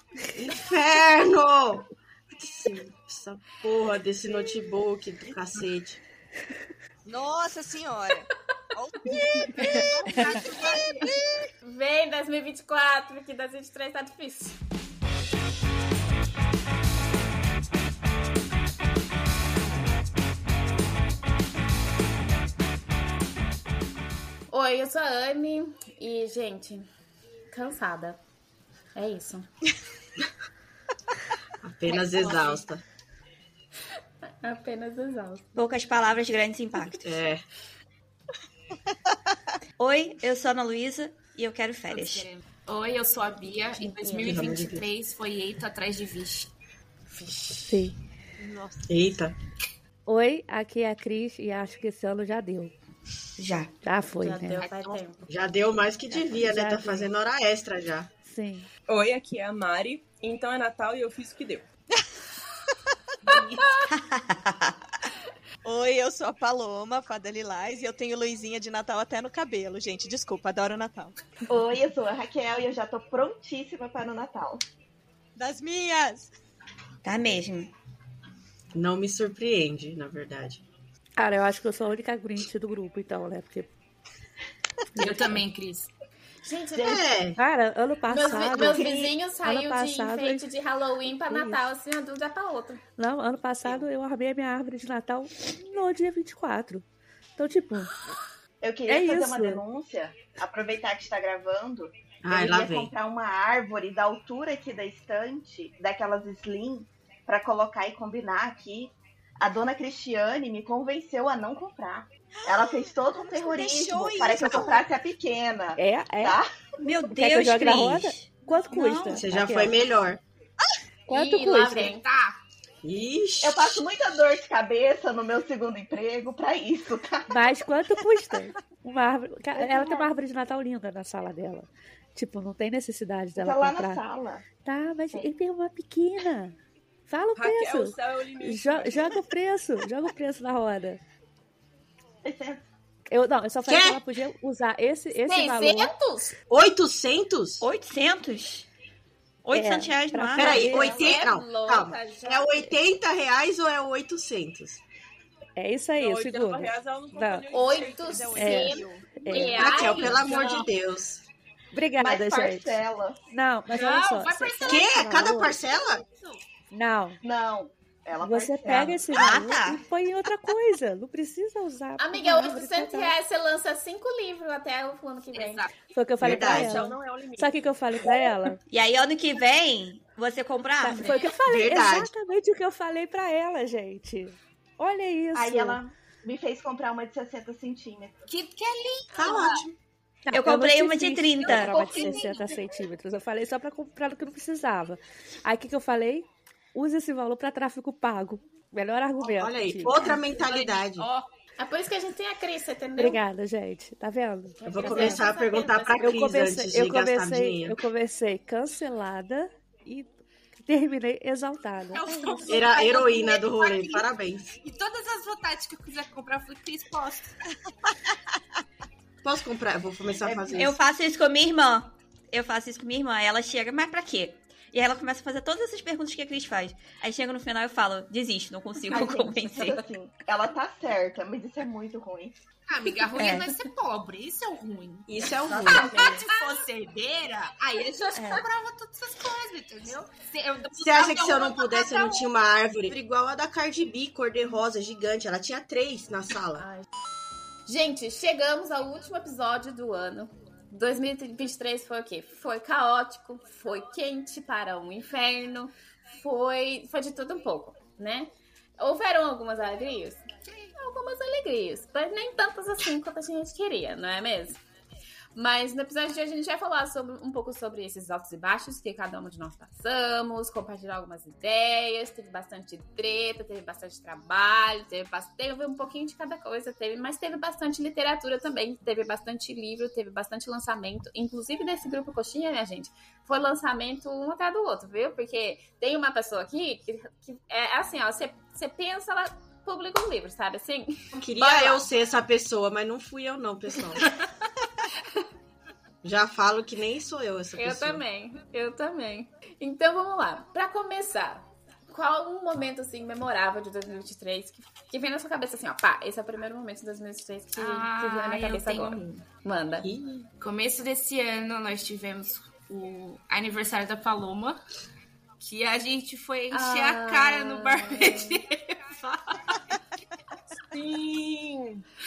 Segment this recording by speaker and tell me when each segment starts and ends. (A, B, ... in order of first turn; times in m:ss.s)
0:00.3-0:06.0 A
0:07.0-0:11.5 B
0:09.1-0:09.8 C
0:11.6-0:14.6 C
0:24.5-0:26.9 C
0:27.5-0:28.2 C
0:28.9-0:29.5 C
0:31.6-0:32.8 A
0:31.9-0:32.6 C
0:34.4-0:35.5 C
0:35.6-0:37.2 D
0:36.9-0:37.4 A
0:39.8-0:42.3 D
0:41.9-0:46.5 E
0:43.8-0:44.4 C
0:44.2-0:44.8 A
0:47.6-0:47.9 F
0:48.9-0:49.3 A
0:50.1-0:52.7 F
0:53.4-0:53.7 D
0:53.4-0:54.7 F
0:54.1-0:55.2 C
0:54.6-0:55.0 E
0:55.3-0:58.1 A
0:56.1-0:57.1 F
0:58.2-0:58.7 F
0:58.9-1:01.7 G
1:03.2-1:03.7 E
1:03.9-1:04.7 D
1:05.6-1:11.2 B
1:11.5-1:14.6 H
1:15.4-1:16.3 B
1:17.0-1:17.7 D
1:18.7-1:20.6 A
1:21.2-1:23.7 F
1:25.0-1:25.9 E
1:25.0-1:25.3 F
1:26.4-1:27.1 C
1:26.8-1:27.4 A
1:27.3-1:30.5 F
1:28.1-1:32.8 C
1:28.6-1:29.0 A
1:31.3-1:31.6 F
1:33.0-1:36.8 F
1:37.4-1:37.9 F
1:38.6-1:56.5 H
1:38.9-1:39.6 F
1:42.2-1:42.9 A
1:52.4-1:54.9 B
1:55.8-1:59.8 F
1:56.8-1:59.2 D
1:59.2-2:00.2 A
2:01.1-2:02.0 F
2:01.1-2:02.4 C
2:02.8-2:03.8 A
2:03.4-2:07.4 H
2:07.3-2:14.0 F
2:09.5-2:10.1 H
2:13.4-2:14.5 H
2:14.6-2:16.6 F
2:17.1-2:21.0 F
2:17.4-2:19.2 G
2:22.2-2:22.6 H
2:23.1-2:25.9 F
2:23.6-2:24.0 A
2:25.2-2:26.3 C
2:26.5-2:27.6 A
2:27.6-2:28.7 D
2:29.4-2:30.9 D
2:29.5-2:31.0 F
2:30.4-2:34.8 A
2:30.6-2:32.5 C
2:35.6-2:37.5 F
2:36.0-2:39.0 G
2:37.5-2:40.7 C
2:38.1-2:39.1 B
2:38.3-2:40.2 F
2:39.5-2:41.2 A
2:41.7-2:42.8 F
2:42.0-2:43.2 H
2:43.3-2:45.6 F
2:43.7-2:45.0 E
2:43.8-2:44.9 C
2:44.6-2:46.0 A
2:45.6-2:46.4 E
2:46.7-2:47.2 F
2:47.2-2:49.5 H
2:48.2-2:53.2 F
2:49.1-2:49.8 D
2:52.0-2:55.7 C
2:55.3-2:55.8 E
2:55.8-2:58.6 F
2:56.2-2:56.9 A
2:56.3-2:57.7 G
2:58.7-3:01.1 D
3:00.8-3:05.8 F
3:01.4-3:02.1 A
3:05.3-3:08.2 H
3:08.3-3:09.6 E
3:09.2-3:09.7 A
3:10.2-3:20.2 F
3:10.3-3:11.8 D
3:11.7-3:12.3 H
3:11.8-3:12.2 C
3:19.2-3:21.1 A
3:20.1-3:21.3 E
3:21.6-3:23.2 C
3:23.0-3:25.3 F
3:24.6-3:26.2 C
3:24.6-3:27.8 A
3:25.9-3:32.6 F
3:31.9-3:34.1 E
3:32.5-3:34.5 A
3:34.6-3:37.4 E
3:39.2-3:40.8 A
3:40.2-3:40.7 H
3:40.5-3:49.9 D
3:48.9-3:52.3 H
3:52.7-4:02.3 E
3:53.2-3:53.5 D
3:55.1-3:55.9 A
3:55.6-3:56.6 C
3:58.1-3:58.4 D
4:00.8-4:06.6 A
4:06.6-4:06.9 C
4:07.6-4:20.2 C
4:20.7-4:24.6 C
4:25.3-4:51.8 C
4:51.1-4:54.0 A
4:56.0-4:58.0 A
4:57.6-5:09.9 C
5:07.6-5:09.2 E
5:09.8-5:10.3 A
5:10.4-5:14.6 E
5:15.4-5:19.7 E
5:16.5-5:18.4 C
5:20.7-5:21.8 G